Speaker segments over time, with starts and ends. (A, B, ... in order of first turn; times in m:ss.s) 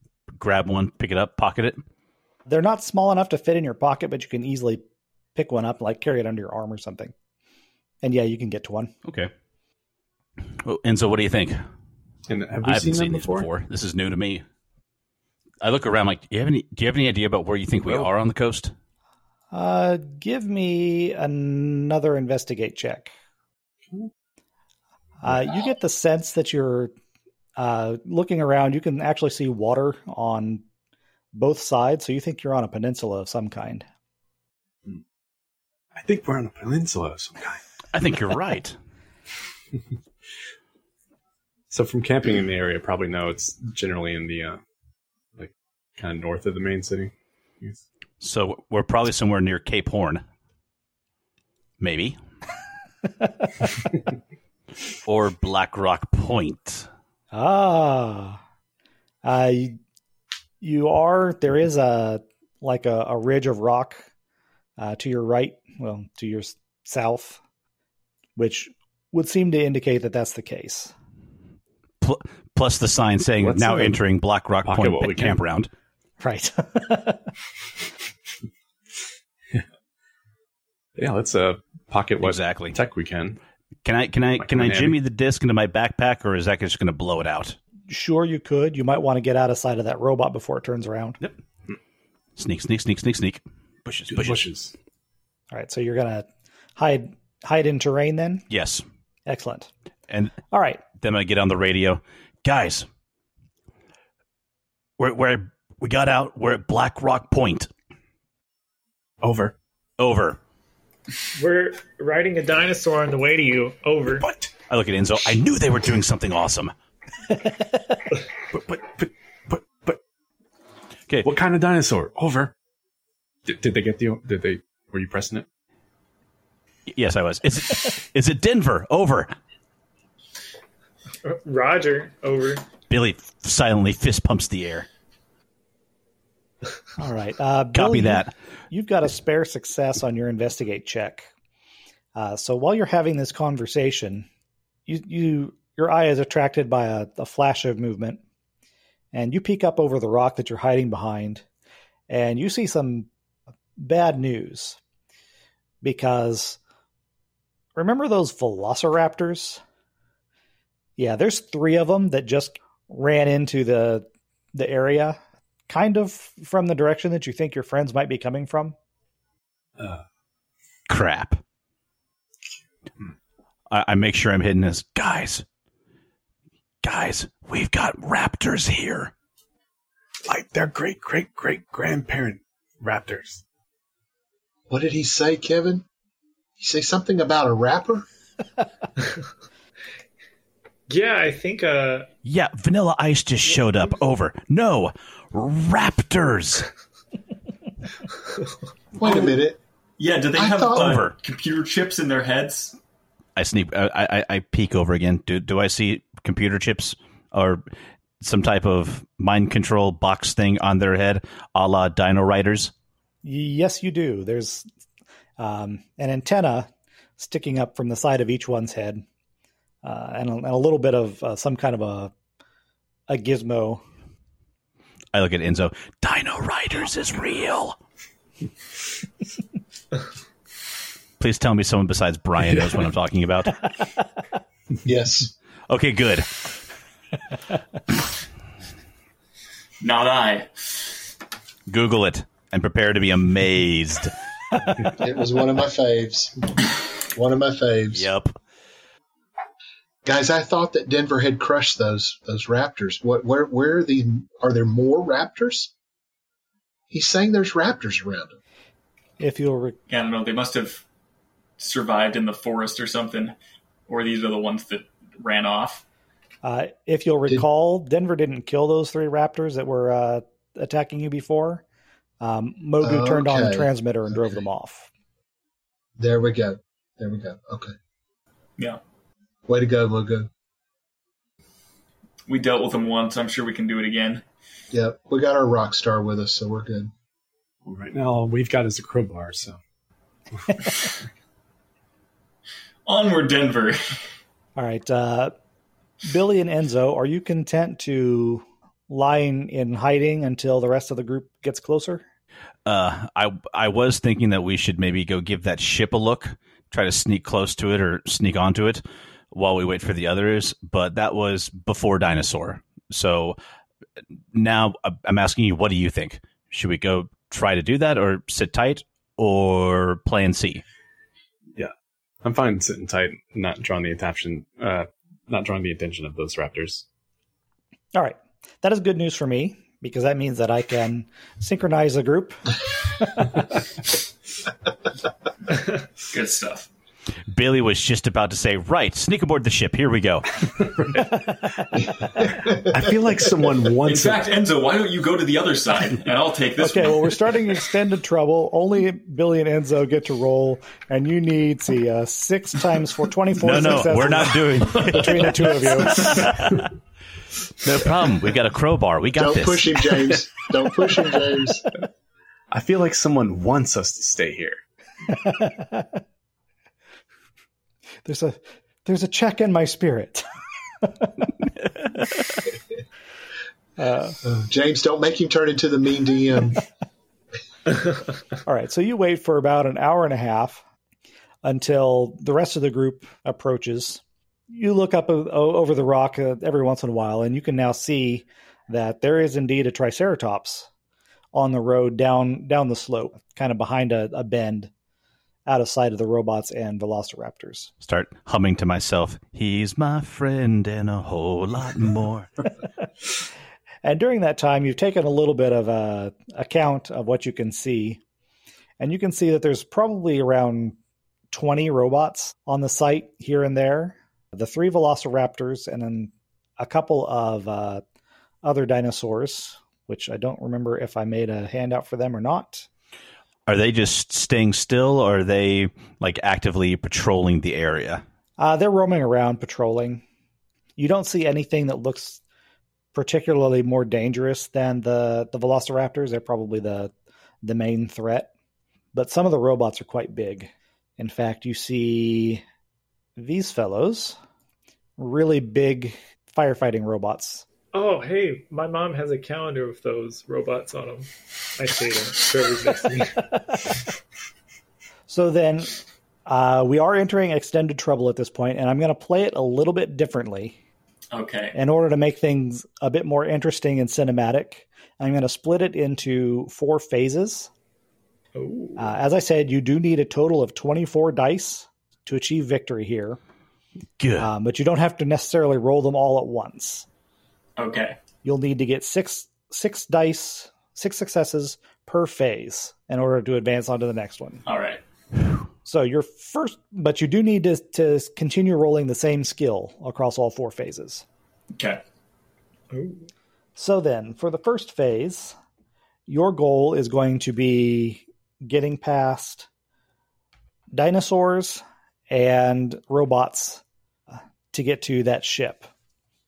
0:00.3-0:01.8 A
0:02.5-0:04.8 B
0:05.4-0:07.1 B
0:08.0-0:08.9 B
0:09.0-0:09.3 A
0:10.6-0:11.6 A
0:12.3-0:13.5 C
0:12.6-0:14.4 A
0:15.6-0:18.7 A
0:19.5-0:23.1 B
0:25.2-0:26.9 B
0:27.6-0:30.6 B
0:31.3-0:33.9 B
0:36.0-0:37.6 C
0:37.9-0:38.8 A
0:41.7-0:44.6 C
0:45.4-0:47.8 C
0:48.2-0:50.2 A
0:51.8-0:52.2 A
0:55.0-0:56.9 A
0:57.3-0:58.4 B
0:59.2-0:59.8 B
1:00.6-1:04.1 B
1:04.8-1:07.4 B
1:08.4-1:10.9 B
1:12.0-1:15.7 A
1:13.4-1:14.0 C
1:14.6-1:15.4 C
1:16.2-1:17.2 B
1:21.0-1:23.4 C
1:22.2-1:22.8 A
1:23.8-1:27.6 A
1:24.4-1:25.0 C
1:27.9-1:31.2 B
1:32.4-1:34.5 A
1:34.1-1:34.7 C
1:35.5-1:38.4 B
1:38.5-1:38.8 A
1:39.3-1:39.7 B
1:40.1-1:40.4 A
1:40.5-1:40.8 B
1:41.0-1:42.9 A
1:45.0-1:47.7 A
1:49.2-1:49.6 C
1:50.0-1:50.4 A
1:51.4-1:54.3 D
1:54.2-1:54.5 C
1:54.7-1:56.7 A
1:58.5-2:00.0 C
2:01.2-2:02.5 C
2:03.5-2:05.5 C
2:06.9-2:09.3 A
2:11.2-2:12.6 D
2:12.9-2:14.9 A
2:17.0-2:21.3 B
2:17.7-2:18.3 A
2:22.2-2:24.3 B
2:24.9-2:28.2 B
2:29.1-2:31.4 B
2:32.1-2:33.1 B
2:33.8-2:34.8 B
2:35.8-2:36.6 B
2:37.8-2:39.6 B
2:41.0-2:48.8 B
2:50.9-2:51.4 A
2:53.7-2:55.4 A
2:56.8-2:59.1 A
3:00.3-3:03.4 C
3:04.7-3:05.8 E
3:06.6-3:08.1 E
3:10.9-3:12.1 D
3:12.2-3:16.7 A
3:19.0-3:19.6 E
3:20.0-3:22.8 F
3:20.4-3:21.0 E
3:20.7-3:21.1 A
3:23.4-3:27.6 A
3:28.2-3:32.7 A
3:33.2-3:34.7 B
3:35.4-3:39.0 B
3:39.8-3:42.1 B
3:43.1-3:43.8 B
3:45.1-3:47.8 A
3:51.2-3:53.6 A
3:54.8-3:55.3 E
3:55.7-3:56.3 A
3:59.8-4:01.0 F
4:01.7-4:04.1 A
4:04.9-4:08.1 E
4:07.9-4:08.4 A
4:10.0-4:15.7 E
4:16.9-4:18.4 E
4:19.2-4:19.8 B
4:19.9-4:20.8 F
4:21.6-4:23.4 F
4:23.9-4:25.8 F
4:26.4-4:31.6 B
4:32.2-4:34.9 B
4:32.8-4:33.7 E
4:36.0-4:37.8 E
4:39.5-4:40.3 E
4:42.3-4:44.2 F
4:44.7-4:46.9 E
4:47.6-4:49.6 C
4:50.4-4:50.9 C
4:52.9-4:54.0 F
4:54.6-4:55.3 B
4:56.0-5:02.0 B
5:02.6-5:13.4 A
5:14.3-5:20.6 A
5:22.2-5:26.8 C
5:28.0-5:32.4 B
5:33.0-5:33.3 B
5:36.1-5:36.7 F
5:37.3-5:40.3 A
5:40.7-5:41.2 C
5:42.2-5:42.8 E
5:42.7-5:44.2 C
5:43.8-5:47.2 F
5:46.6-5:56.2 B
5:53.4-5:56.7 A
5:56.1-5:56.4 C
5:57.6-5:59.9 A
5:59.2-6:01.6 E
6:02.5-6:04.6 C
6:05.2-6:05.9 B
6:08.0-6:10.3 B
6:10.8-6:11.1 B
6:13.8-6:14.2 B
6:14.2-6:16.6 E
6:18.4-6:20.6 B
6:21.4-6:30.7 B
6:31.3-6:34.7 B
6:35.5-6:37.7 B
6:37.8-6:42.3 A
6:43.8-6:48.0 B
6:48.8-6:50.8 B
6:51.3-6:57.8 B
6:58.4-7:02.7 B
7:03.5-7:08.0 A
7:08.4-7:10.0 B
7:10.8-7:12.2 B
7:12.9-7:16.9 B
7:17.4-7:18.3 B
7:18.9-7:22.4 B
7:23.2-7:24.2 B
7:25.0-7:27.4 B
7:27.7-7:33.3 D
7:35.1-7:40.6 B
7:41.1-7:41.6 F
7:41.6-7:47.5 B
7:48.4-7:48.9 D
7:48.8-7:53.2 B
7:54.0-7:54.3 A
7:54.2-7:56.8 B
7:57.6-7:58.0 F
7:58.2-8:04.4 B
8:04.5-8:04.8 F
8:05.6-8:11.0 B
8:11.6-8:11.8 F
8:12.7-8:13.1 D
8:13.6-8:15.4 B
8:16.1-8:19.5 B
8:20.7-8:23.6 B
8:24.5-8:25.7 B